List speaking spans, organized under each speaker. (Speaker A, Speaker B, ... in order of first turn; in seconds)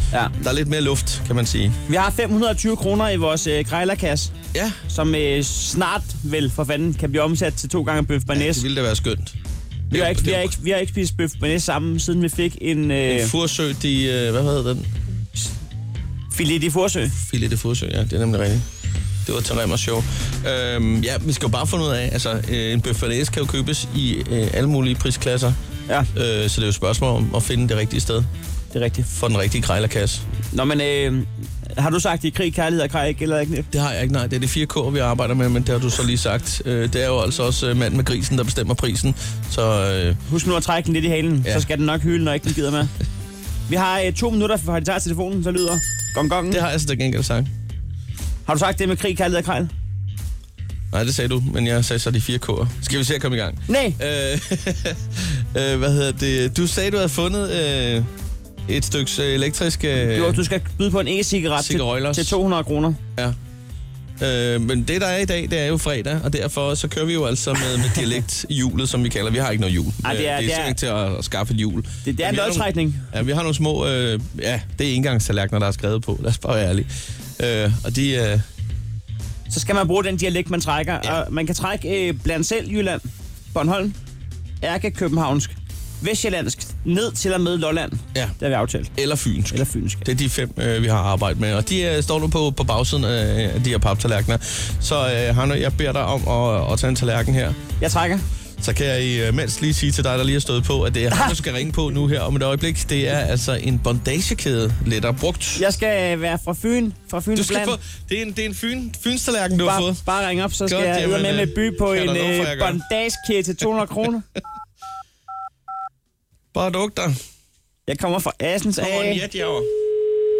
Speaker A: 0.4-1.8, 8.3-9.4, 9.9-10.5, 13.1-14.9, 17.2-18.7, 19.2-25.6, 26.1-28.3, 29.1-30.2, 33.7-40.2, 46.5-47.5, 50.9-58.1, 58.7-60.4, 61.6-62.4, 64.2-78.5, 89.0-97.6, 98.6-105.7, 107.3-110.0, 110.7-112.8, 116.5-117.2, 118.8-119.7
Speaker B: 1.9-4.3, 4.9-8.7, 9.9-13.3, 16.3-17.1, 28.7-29.1, 30.5-33.7, 40.3-42.9, 43.7-46.6, 48.5-49.7, 53.7-54.0, 60.0-63.0, 70.0-70.8, 72.0-73.1, 79.5-84.0, 84.6-88.9, 89.5-90.0, 97.8-98.2, 105.6-107.8, 109.6-114.2, 117.9-119.2